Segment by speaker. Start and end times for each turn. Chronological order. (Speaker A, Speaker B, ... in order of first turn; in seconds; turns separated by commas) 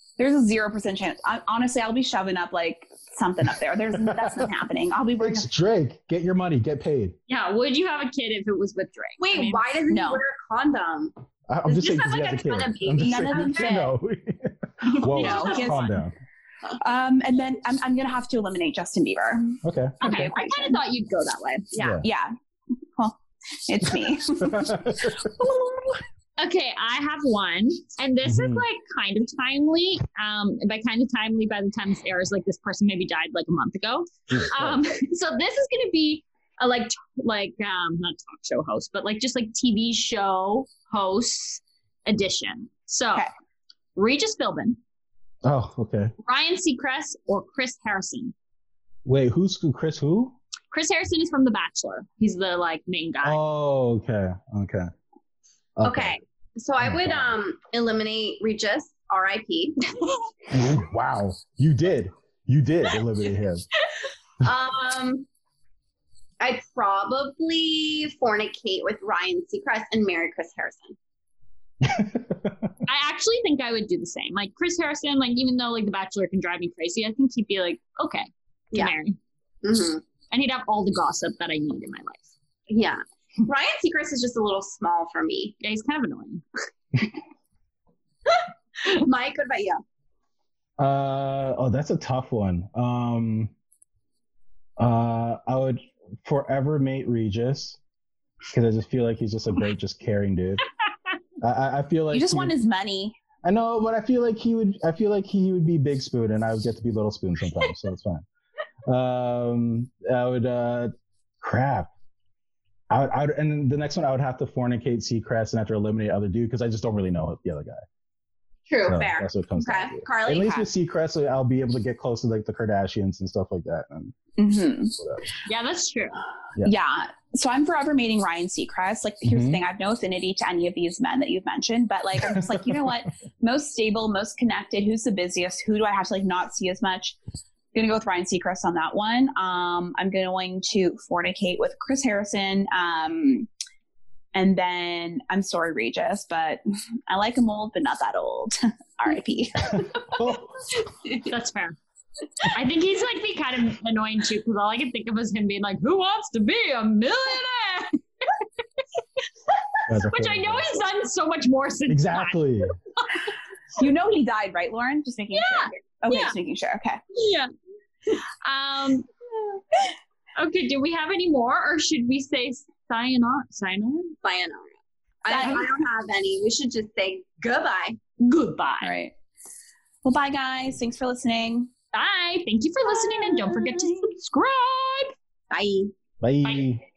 Speaker A: 0.2-5.5, Speaker B: 4.0-4.5, Speaker B: 5.2-7.2, Speaker C: 7.3-9.6, Speaker D: 9.2-13.7, Speaker A: 9.9-10.2, Speaker B: 11.5-16.1, Speaker A: 13.0-13.9, Speaker A: 14.9-15.9, Speaker C: 14.9-15.9, Speaker A: 16.8-20.8, Speaker B: 19.6-20.0, Speaker C: 20.0-21.7, Speaker D: 21.7-22.0, Speaker B: 21.8-22.1, Speaker A: 21.8-22.3, Speaker A: 22.9-25.6, Speaker B: 24.4-25.3, Speaker C: 26.4-43.3, Speaker B: 28.2-28.6, Speaker B: 34.3-34.8, Speaker C: 44.0-44.8, Speaker B: 45.4-46.1, Speaker C: 46.2-48.3, Speaker B: 49.0-50.4, Speaker C: 50.7-53.4, Speaker B: 53.2-54.9, Speaker B: 55.8-56.2, Speaker D: 55.8-59.7, Speaker B: 56.8-57.4, Speaker B: 60.5-63.7, Speaker D: 64.4-65.2, Speaker D: 66.4-71.0, Speaker B: 71.8-72.7, Speaker C: 72.8-79.2, Speaker D: 79.6-80.0, Speaker C: 80.3-82.3, Speaker D: 82.7-85.5, Speaker C: 85.6-86.4, Speaker D: 88.3-89.8, Speaker B: 90.8-93.5, Speaker B: 94.8-97.8, Speaker B: 98.5-100.6, Speaker B: 101.4-102.5, Speaker A: 102.1-103.2, Speaker B: 103.4-108.2, Speaker B: 108.9-111.9, Speaker B: 112.9-117.8, Speaker D: 118.7-120.7, Speaker B: 118.8-124.1, Speaker A: 124.4-125.0, Speaker C: 125.5-126.2, Speaker A: 126.6-137.2, Speaker B: 129.2-129.6, Speaker B: 132.2-132.7, Speaker A: 137.7-143.5, Speaker A: 144.3-150.1, Speaker B: 149.7-150.7, Speaker C: 151.2-151.8, Speaker C: 152.4-158.4, Speaker B: 159.9-160.8, Speaker C: 159.9-163.2, Speaker B: 161.9-162.7, Speaker A: 163.8-167.0, Speaker C: 165.3-166.3, Speaker C: 167.1-167.5, Speaker C: 168.1-169.6, Speaker C: 170.4-174.1, Speaker D: 174.2-174.7, Speaker D: 175.2-178.0, Speaker A: 175.3-175.6, Speaker C: 175.3-175.6, Speaker C: 178.2-178.9, Speaker A: 178.8-179.1, Speaker A: 180.0-181.7, Speaker C: 181.9-185.1, Speaker D: 185.5-185.9, Speaker B: 186.2-186.8